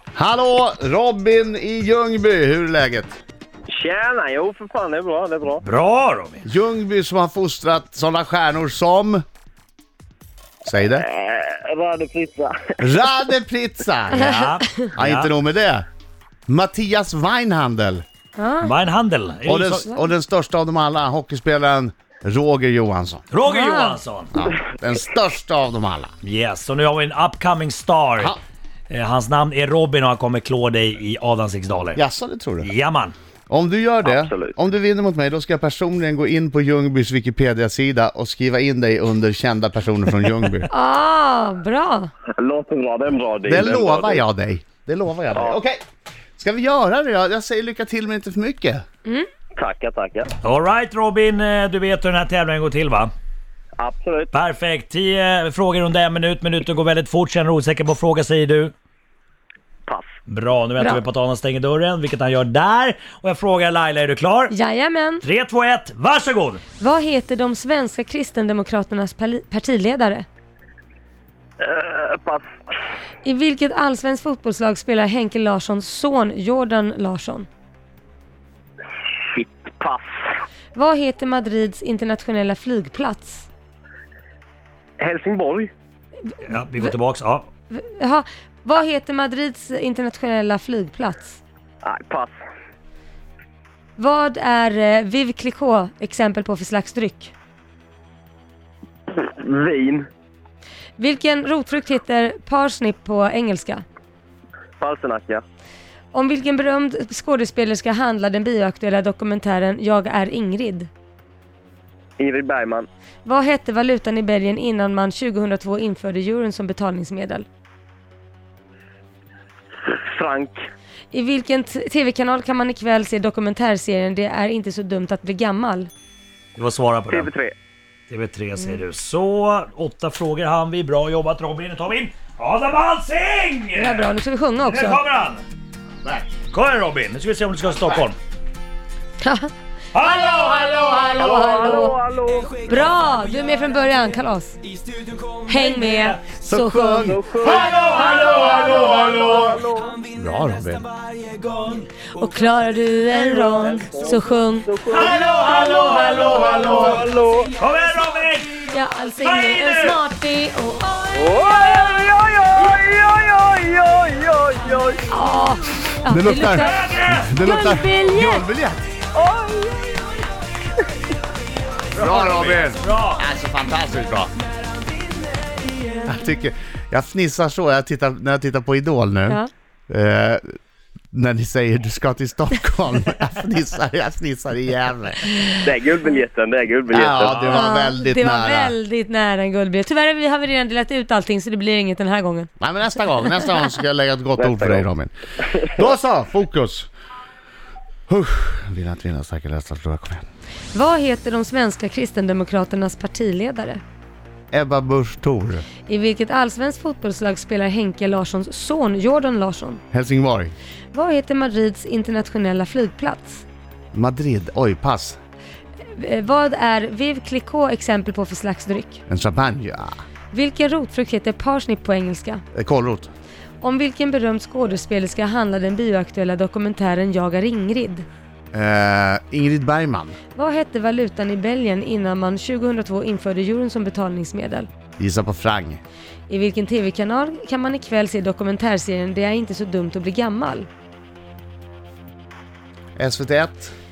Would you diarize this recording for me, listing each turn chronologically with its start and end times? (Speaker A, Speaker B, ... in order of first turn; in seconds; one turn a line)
Speaker A: 0.2-3.1
Speaker B: 3.7-5.6
Speaker C: 5.6-6.5
Speaker A: 6.5-9.2
Speaker A: 10.7-11.1
Speaker B: 11.0-12.8
Speaker A: 12.8-14.3
Speaker D: 14.2-14.9
Speaker C: 14.2-15.3
Speaker A: 14.9-15.9
Speaker A: 16.5-18.0
Speaker D: 18.4-18.7
Speaker C: 18.6-19.9
Speaker A: 19.5-23.2
Speaker C: 23.3-24.3
Speaker D: 23.4-24.0
Speaker A: 24.3-26.1
Speaker C: 26.2-28.4
Speaker C: 28.9-32.0
Speaker A: 32.0-32.7
Speaker C: 32.6-33.1
Speaker A: 33.5-40.7
Speaker B: 34.0-34.5
Speaker D: 40.7-42.1
Speaker B: 42.4-44.2
Speaker A: 43.5-45.8
Speaker A: 46.4-48.8
Speaker B: 49.6-50.3
Speaker C: 50.4-53.1
Speaker B: 53.8-54.3
Speaker C: 54.3-58.7
Speaker C: 60.3-64.5
Speaker D: 64.5-65.2
Speaker C: 65.2-66.6
Speaker D: 66.8-70.3
Speaker B: 71.6-72.5
Speaker D: 73.2-77.5
Speaker B: 79.3-80.1
Speaker D: 80.8-83.5
Speaker B: 85.0-85.7
Speaker C: 86.4-87.5
Speaker D: 87.7-91.4
Speaker B: 91.8-92.3
Speaker D: 94.0-97.3
Speaker B: 99.1-100.1
Speaker D: 101.0-103.8
Speaker B: 104.8-105.4
Speaker D: 106.1-110.9
Speaker B: 112.2-112.9
Speaker D: 113.2-117.5
Speaker B: 119.9-120.6
Speaker D: 121.1-125.9
Speaker C: 126.6-127.3
Speaker B: 127.1-127.5
Speaker C: 128.1-134.1
Speaker D: 133.8-135.0
Speaker C: 134.7-135.4
Speaker A: 136.0-136.3
Speaker C: 136.5-138.2
Speaker D: 139.2-142.0
Speaker C: 139.9-140.4
Speaker A: 140.2-141.6
Speaker B: 141.2-142.7
Speaker D: 142.6-144.6
Speaker D: 145.5-147.2
Speaker C: 145.6-146.2
Speaker A: 146.4-149.6
Speaker B: 147.0-150.0
Speaker C: 147.5-149.1
Speaker A: 150.1-150.9
Speaker C: 151.2-151.9
Speaker D: 152.1-156.9
Speaker B: 153.3-157.5
Speaker C: 154.9-157.0
Speaker A: 155.7-157.0
Speaker C: 157.6-158.7
Speaker D: 158.7-161.6
Speaker C: 159.2-160.0
Speaker B: 161.1-165.0
Speaker D: 165.1-168.4
Speaker A: 166.1-168.9
Speaker C: 166.4-167.4
Speaker B: 169.2-170.1
Speaker C: 171.9-173.2
Speaker A: 172.0-174.3
Speaker A: 176.1-180.4
Speaker A: 181.1-185.2
Speaker B: 185.6-187.6
Speaker A: 186.9-188.8
Speaker D: 187.5-192.5
Speaker A: 192.6-195.1
Speaker B: 194.4-194.8
Speaker B: 195.5-195.7
Speaker A: 195.7-196.9
Speaker A: 198.1-200.2
Speaker D: 200.7-203.8
Speaker A: 204.5-205.7
Speaker D: 205.9-209.8
Speaker A: 209.9-210.5
Speaker D: 210.9-213.4
Speaker A: 213.9-215.2
Speaker D: 216.0-219.0
Speaker A: 219.1-219.9
Speaker D: 220.3-222.4
Speaker A: 222.5-223.1
Speaker D: 223.6-228.1
Speaker A: 228.5-230.2
Speaker D: 230.3-234.7
Speaker A: 235.0-235.8
Speaker D: 236.3-240.7
Speaker A: 243.0-243.7